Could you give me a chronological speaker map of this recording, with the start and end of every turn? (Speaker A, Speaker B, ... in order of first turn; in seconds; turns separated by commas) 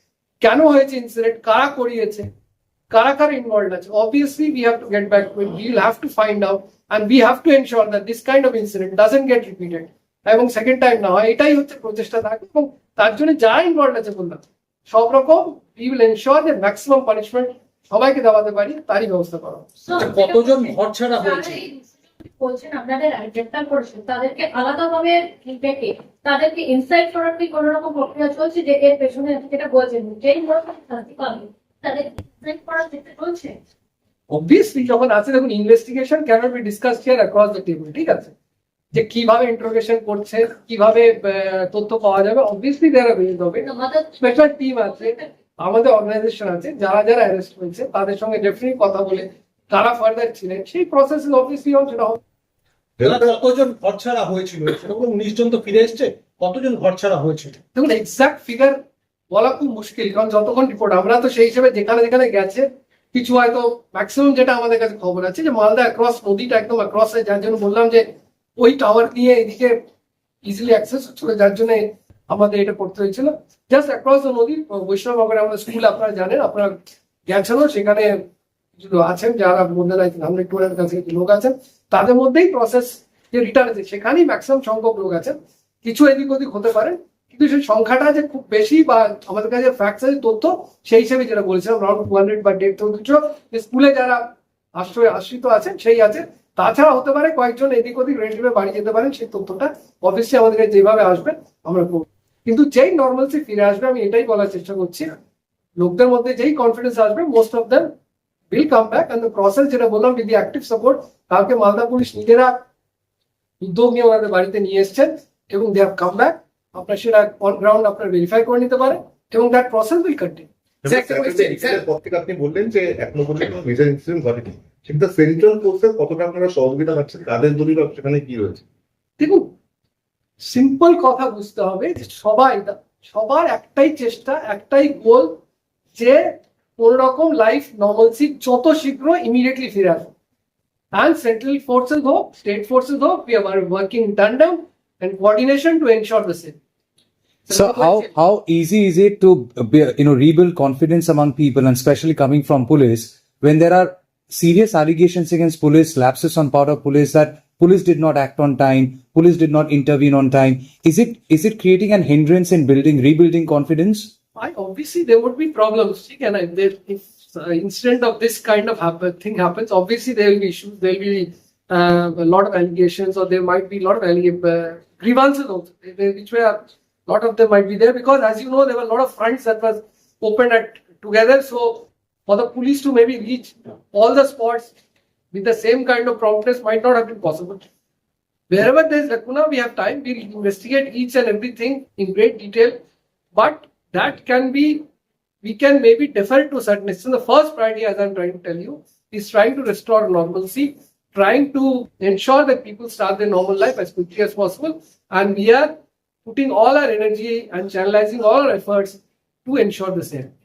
Speaker A: 0.4-2.3, Speaker A: 2.9-19.7, Speaker B: 19.9-33.6, Speaker C: 20.0-21.6, Speaker A: 34.3-38.3, Speaker A: 38.9-52.2, Speaker B: 43.6-44.3, Speaker B: 44.9-45.3, Speaker D: 53.0-53.3, Speaker C: 53.0-57.6, Speaker A: 57.8-58.8, Speaker A: 59.3-68.1, Speaker A: 68.6-69.8, Speaker A: 70.5-78.2, Speaker A: 78.8-105.1, Speaker A: 105.8-107.9, Speaker A: 108.5-112.7, Speaker A: 113.6-120.5, Speaker D: 120.8-128.6, Speaker A: 129.2-129.5, Speaker A: 130.4-135.4, Speaker A: 135.9-140.1, Speaker A: 140.9-146.6, Speaker E: 147.5-164.1, Speaker A: 147.5-148.0, Speaker A: 164.4-184.8, Speaker A: 185.3-187.7, Speaker A: 188.5-192.8, Speaker A: 193.3-194.8, Speaker A: 195.4-210.3